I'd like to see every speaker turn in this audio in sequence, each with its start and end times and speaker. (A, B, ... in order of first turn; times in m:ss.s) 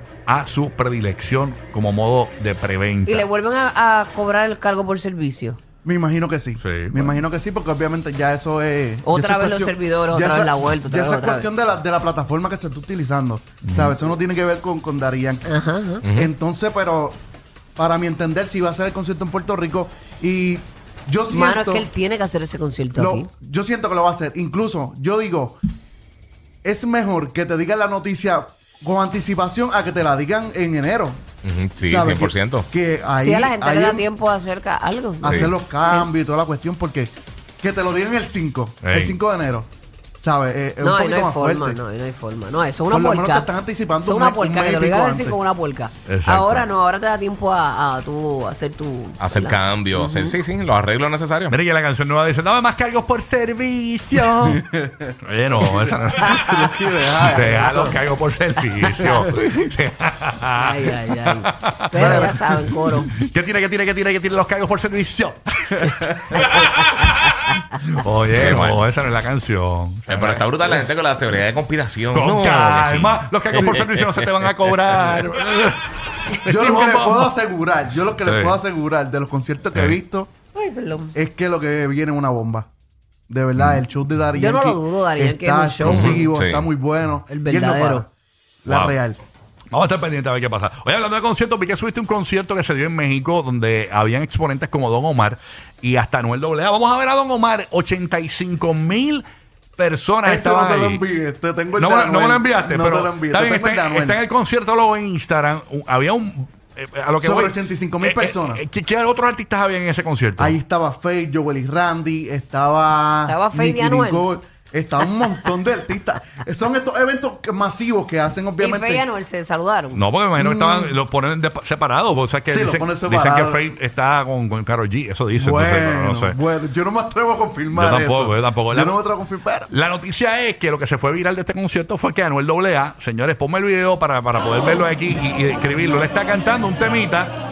0:00.3-0:03.2 A
0:03.0-0:05.6 B
0:05.8-0:15.5 C
0:06.6-0:07.2 A
0:09.0-0:11.5 B
0:13.6-0:13.9 A
0:15.4-0:16.0 B
0:16.0-0:16.3 D
0:16.1-0:17.2 C
0:17.8-0:21.9 C
0:21.3-0:23.3 B
0:22.9-0:25.6 C
0:26.6-0:31.2 C
0:31.4-0:32.7 D
0:31.8-0:34.0 C
0:33.2-0:36.1 B
0:35.2-0:41.8 C
0:35.2-0:35.5 D
0:38.8-0:39.2 A
0:40.8-0:43.5 B
0:42.9-0:45.4 C
0:44.0-0:50.4 B
0:46.0-0:46.6 A
0:49.2-0:51.5 D
0:51.5-0:54.6 A
0:54.4-0:58.0 C
0:55.2-0:56.5 A
0:56.2-0:56.7 B
0:57.2-1:07.1 A
0:57.5-0:57.9 B
0:58.6-0:59.3 B
1:00.6-1:03.1 B
1:02.0-1:02.4 C
1:06.5-1:07.5 B
1:07.8-1:10.5 A
1:08.3-1:08.8 D
1:10.1-1:15.2 D
1:12.1-1:17.3 A
1:16.4-1:20.3 C
1:18.2-1:18.6 A
1:20.5-1:21.1 B
1:21.1-1:22.7 C
1:23.3-1:28.1 C
1:24.4-1:26.4 B
1:25.8-1:26.7 D
1:27.3-1:28.0 B
1:28.6-1:29.2 C
1:28.7-1:29.0 A
1:29.7-1:39.2 A
1:39.8-1:41.0 A
1:40.2-1:44.2 C
1:41.8-1:50.5 A
1:47.2-1:48.6 C
1:50.4-1:59.0 C
1:53.3-1:54.3 B
1:58.6-2:00.1 B
1:59.9-2:06.4 A
2:00.4-2:01.0 C
2:02.5-2:03.7 C
2:05.4-2:09.7 C
2:07.7-2:09.0 A
2:09.7-2:17.3 A